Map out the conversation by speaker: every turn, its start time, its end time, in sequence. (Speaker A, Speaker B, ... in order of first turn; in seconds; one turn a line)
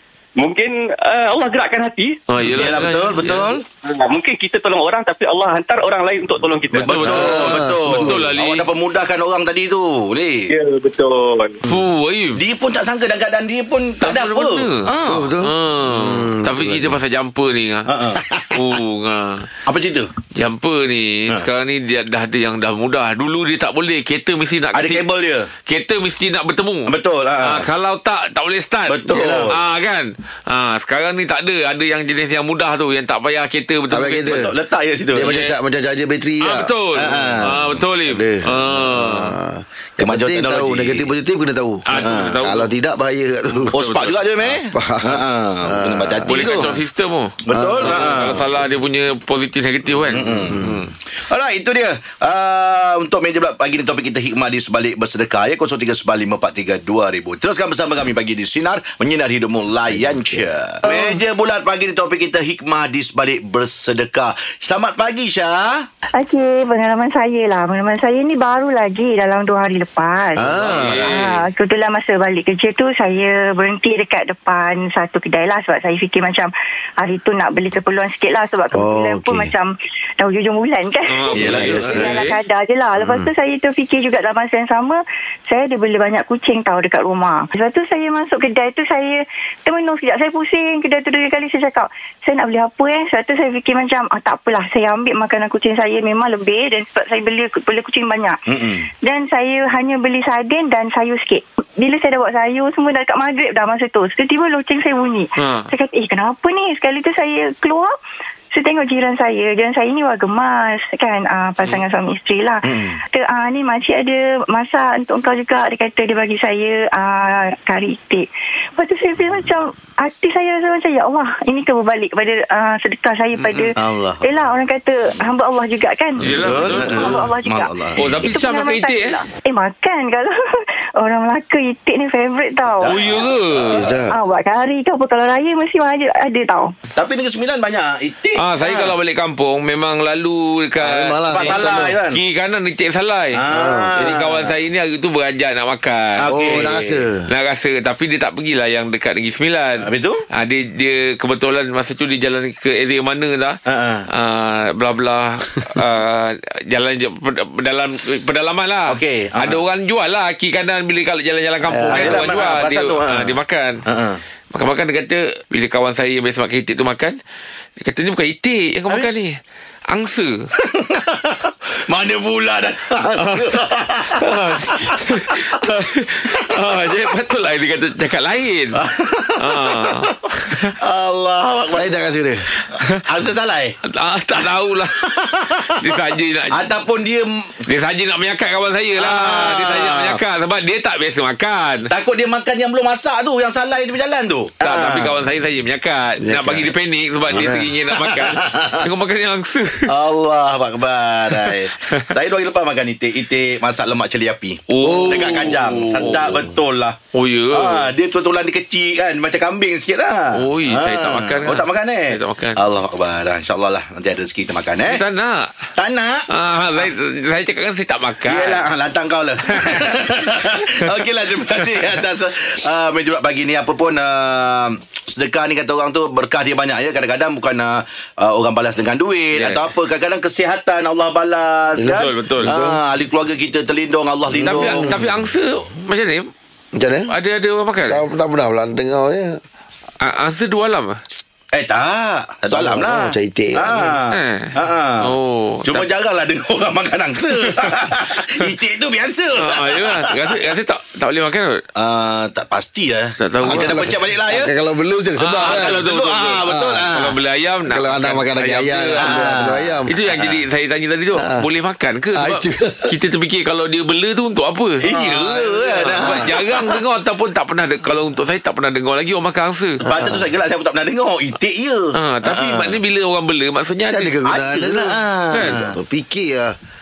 Speaker A: 0.4-2.2
Speaker B: 2.3-3.5
Speaker C: 2.4-3.6
Speaker A: 3.8-7.0
Speaker B: 6.8-8.7
Speaker C: 6.8-10.5
Speaker D: 7.0-8.4
Speaker A: 10.5-11.6
Speaker B: 11.7-12.4
Speaker C: 12.4-15.3
Speaker B: 14.0-14.9
Speaker D: 15.0-17.0
Speaker B: 15.4-17.9
Speaker C: 17.9-18.5
Speaker B: 18.5-19.5
Speaker C: 19.6-20.1
Speaker B: 20.4-25.1
Speaker C: 24.7-25.5
Speaker B: 25.7-26.9
Speaker C: 26.9-27.7
Speaker B: 27.4-34.2
Speaker C: 28.9-29.6
Speaker D: 33.9-34.5
Speaker C: 34.1-35.4
Speaker D: 35.1-37.2
Speaker B: 35.2-35.5
Speaker B: 36.4-39.3
Speaker C: 37.0-37.8
Speaker D: 38.0-43.7
Speaker C: 40.0-41.1
Speaker B: 41.9-42.7
Speaker C: 42.0-42.4
Speaker B: 43.5-44.3
Speaker C: 43.7-46.7
Speaker D: 44.4-46.8
Speaker B: 46.3-50.9
Speaker C: 47.5-48.5
Speaker D: 47.5-48.1
Speaker C: 50.1-65.9
Speaker D: 50.5-50.8
Speaker D: 59.9-61.2
Speaker E: 66.2-70.5
Speaker D: 70.4-71.1
Speaker B: 70.5-71.5
Speaker C: 70.5-71.2
Speaker E: 71.2-98.4
Speaker D: 78.7-79.5
Speaker B: 81.1-82.4
Speaker C: 81.3-82.2
Speaker D: 81.5-82.0
Speaker D: 83.0-83.3
Speaker C: 98.5-98.9
Speaker E: 99.0-107.9
Speaker B: 105.4-105.7
Speaker E: 108.5-130.3
Speaker C: 112.7-113.0
Speaker B: 123.4-123.8
Speaker C: 123.8-124.6
Speaker B: 126.2-127.2
Speaker C: 126.2-128.1
Speaker B: 128.0-129.2
Speaker E: 131.0-133.1
Speaker C: 132.6-133.9
Speaker B: 132.9-133.8
Speaker D: 133.7-134.2
Speaker E: 134.1-136.7
Speaker C: 136.9-139.0
Speaker B: 138.4-143.4
Speaker D: 140.8-142.0
Speaker C: 141.3-142.2
Speaker C: 143.3-144.5
Speaker D: 143.5-143.9
Speaker B: 144.0-146.7
Speaker C: 146.2-147.0
Speaker D: 146.3-147.2
Speaker B: 147.3-149.8
Speaker C: 149.8-150.2
Speaker B: 150.3-153.6
Speaker C: 153.7-154.1
Speaker B: 154.1-163.8
Speaker C: 158.9-159.6
Speaker D: 161.7-162.2
Speaker C: 161.9-164.2
Speaker B: 164.5-167.2
Speaker B: 167.8-169.4
Speaker C: 168.9-169.2
Speaker B: 169.9-170.3
Speaker C: 170.6-175.7
Speaker B: 174.2-178.8
Speaker C: 176.3-176.5
Speaker C: 178.8-181.9
Speaker B: 179.4-180.7
Speaker D: 181.7-182.5
Speaker B: 182.7-183.0
Speaker C: 183.1-183.8
Speaker B: 183.8-185.0
Speaker C: 184.4-185.8
Speaker B: 185.7-186.7
Speaker C: 186.5-187.6
Speaker B: 187.7-191.9
Speaker C: 189.0-190.2
Speaker C: 191.9-195.2
Speaker B: 194.6-199.9
Speaker D: 196.2-196.7
Speaker D: 197.3-197.7
Speaker C: 197.3-198.8
Speaker C: 199.9-207.0
Speaker B: 204.7-206.3
Speaker D: 204.8-205.3
Speaker B: 207.1-207.9
Speaker C: 207.5-215.0
Speaker B: 210.3-212.6
Speaker B: 214.8-215.5
Speaker C: 215.8-216.3
Speaker B: 216.3-218.7
Speaker C: 218.2-234.9
Speaker B: 219.5-220.5
Speaker B: 221.6-221.9
Speaker B: 229.3-229.7
Speaker D: 231.8-232.8
Speaker B: 231.9-232.6
Speaker D: 234.3-235.2
Speaker B: 234.4-236.3
Speaker D: 236.8-237.2
Speaker B: 237.1-238.0
Speaker D: 237.9-239.4
Speaker B: 240.0-241.0
Speaker C: 241.5-245.1
Speaker D: 242.5-243.9
Speaker B: 244.1-245.9
Speaker C: 245.7-250.0
Speaker B: 247.4-247.8
Speaker B: 249.4-251.6
Speaker C: 251.8-254.5
Speaker B: 253.2-253.9
Speaker D: 253.4-255.8
Speaker B: 255.2-259.2
Speaker C: 255.4-257.1
Speaker D: 256.4-256.9
Speaker D: 257.7-259.9
Speaker C: 259.0-260.4
Speaker B: 259.9-264.8
Speaker D: 261.1-261.5
Speaker D: 262.1-262.9
Speaker C: 264.8-266.7
Speaker D: 264.9-266.3
Speaker B: 265.7-269.8
Speaker D: 269.8-270.2
Speaker C: 269.8-272.8
Speaker B: 271.9-274.2
Speaker D: 273.9-275.0
Speaker C: 274.2-275.8
Speaker B: 275.3-275.6
Speaker D: 275.5-276.5